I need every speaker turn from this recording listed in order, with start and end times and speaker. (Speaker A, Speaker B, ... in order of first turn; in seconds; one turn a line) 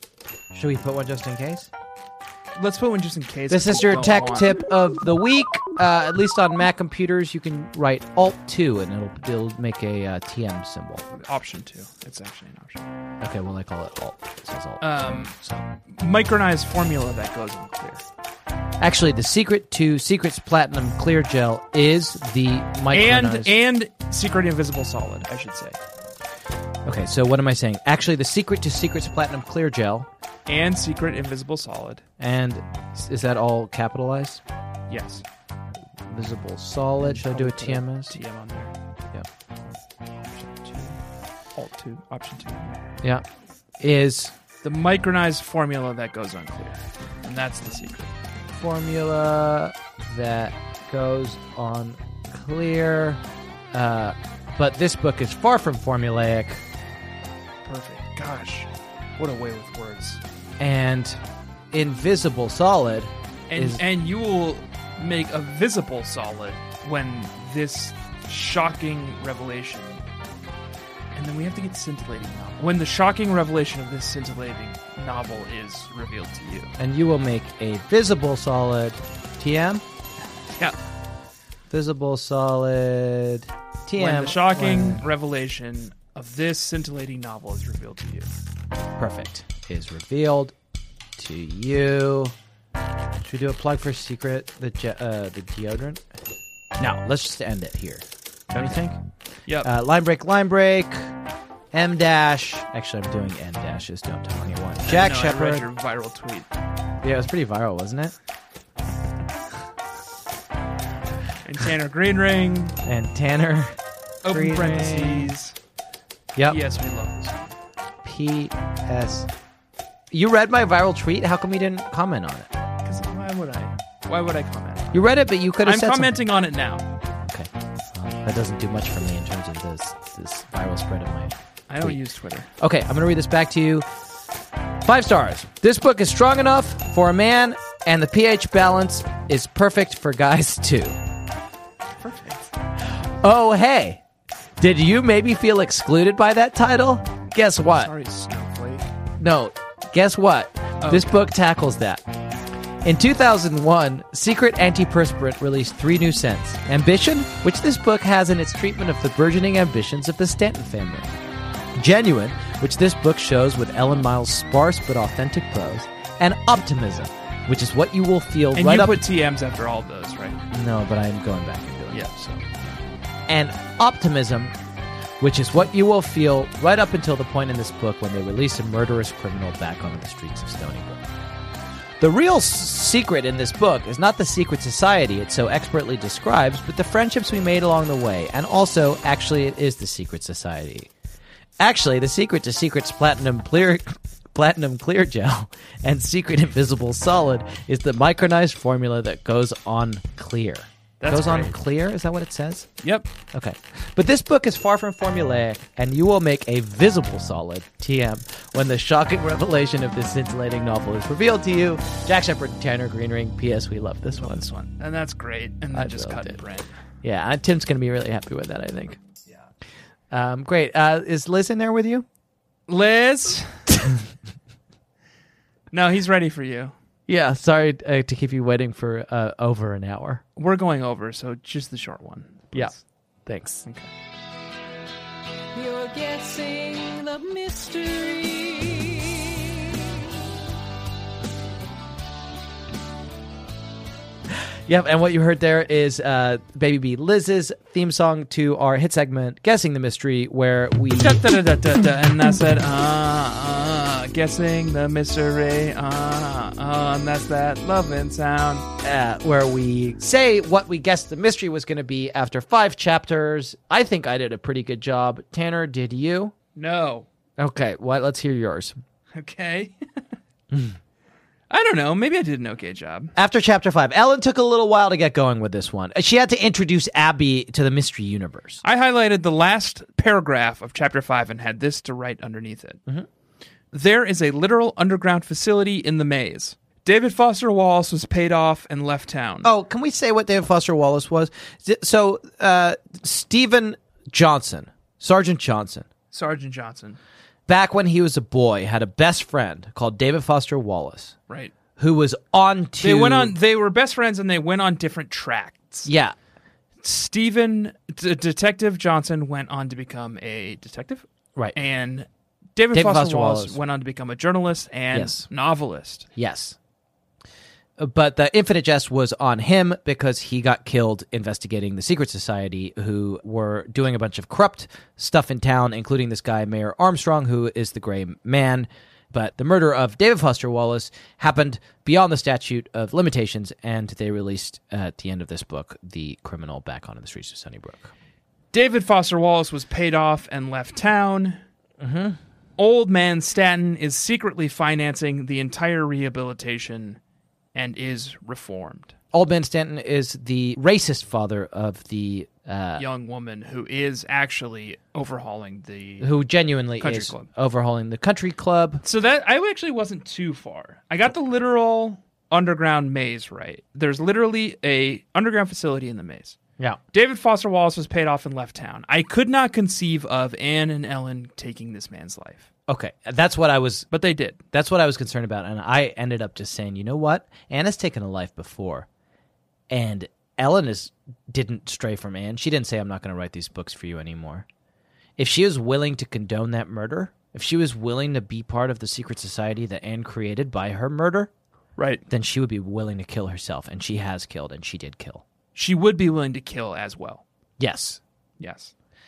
Speaker A: 0.5-1.7
Speaker B: 2.5-4.5
Speaker A: 3.5-11.0
Speaker B: 11.1-12.9
Speaker A: 13.2-15.6
Speaker B: 14.8-18.0
Speaker A: 18.8-23.6
Speaker B: 22.9-25.8
Speaker A: 26.9-30.1
Speaker B: 30.5-32.0
Speaker A: 32.2-34.4
Speaker B: 34.9-35.2
Speaker A: 36.1-38.2
Speaker B: 37.0-38.7
Speaker B: 40.3-41.0
Speaker B: 41.5-42.9
Speaker A: 43.8-44.3
Speaker B: 44.6-48.1
Speaker A: 48.5-53.2
Speaker A: 53.7-56.6
Speaker B: 57.6-60.2
Speaker A: 60.6-61.2
Speaker A: 61.7-63.8
Speaker B: 63.5-70.0
Speaker B: 71.1-76.7
Speaker A: 76.8-79.8
Speaker B: 80.5-80.8
Speaker A: 81.7-85.0
Speaker B: 84.0-88.3
Speaker A: 89.0-90.5
Speaker A: 91.2-92.3
Speaker A: 93.2-96.0
Speaker A: 96.8-99.0
Speaker B: 99.5-99.7
Speaker A: 99.6-101.1
Speaker A: 101.7-105.7
Speaker B: 104.8-106.5
Speaker A: 107.0-108.1
Speaker B: 111.4-112.8
Speaker A: 112.8-113.7
Speaker B: 114.2-115.5
Speaker A: 114.3-115.3
Speaker A: 116.3-116.6
Speaker B: 116.5-117.5
Speaker A: 118.0-119.3
Speaker A: 120.1-122.5
Speaker B: 122.8-125.1
Speaker A: 124.9-126.2
Speaker B: 125.6-126.9
Speaker A: 127.3-132.0
Speaker B: 131.7-132.5
Speaker A: 132.6-133.8
Speaker A: 134.8-141.0
Speaker B: 142.0-142.5
Speaker A: 143.2-144.0
Speaker A: 144.6-147.9
Speaker B: 147.7-148.8
Speaker A: 149.2-152.0
Speaker B: 150.8-151.2
Speaker A: 152.8-161.1
Speaker A: 161.8-169.0
Speaker B: 168.5-170.4
Speaker A: 170.5-172.7
Speaker A: 173.3-174.5
Speaker A: 175.2-181.0
Speaker A: 182.0-190.9
Speaker A: 191.6-202.7
Speaker B: 201.0-201.6
Speaker B: 202.8-203.1
Speaker A: 203.3-214.5
Speaker B: 214.2-216.7
Speaker A: 215.7-216.4
Speaker A: 217.0-219.0
Speaker A: 220.1-222.1
Speaker B: 222.7-223.7
Speaker B: 225.7-226.7
Speaker A: 227.1-230.2
Speaker B: 230.3-232.8
Speaker A: 233.2-233.7
Speaker B: 233.6-233.9
Speaker C: 235.5-239.1
Speaker A: 244.3-251.2
Speaker B: 250.9-258.7
Speaker A: 258.8-266.3
Speaker B: 266.5-267.1
Speaker A: 267.4-268.8
Speaker B: 269.1-269.7
Speaker B: 271.5-273.1
Speaker A: 273.1-278.6
Speaker B: 278.6-282.8
Speaker B: 283.7-289.5
Speaker A: 289.4-295.9
Speaker B: 296.1-297.0
Speaker A: 297.5-301.1
Speaker A: 301.8-303.3
Speaker B: 302.8-305.9
Speaker A: 305.8-306.1
Speaker B: 306.8-316.1
Speaker A: 312.7-313.6
Speaker A: 314.9-315.3
Speaker A: 316.1-316.6
Speaker A: 317.8-337.9
Speaker B: 338.5-341.4
Speaker A: 341.8-342.2
Speaker B: 342.6-347.0
Speaker B: 347.5-348.9
Speaker A: 349.1-352.9
Speaker B: 352.8-356.1
Speaker A: 356.0-358.8
Speaker B: 356.8-357.3
Speaker B: 358.8-366.4
Speaker B: 366.9-372.5
Speaker A: 372.7-373.9
Speaker B: 373.9-374.4
Speaker A: 374.5-378.9
Speaker A: 379.7-384.4
Speaker A: 385.2-391.3
Speaker B: 391.8-392.0
Speaker A: 392.1-395.2
Speaker B: 395.5-397.2
Speaker A: 397.6-398.0
Speaker B: 398.4-398.7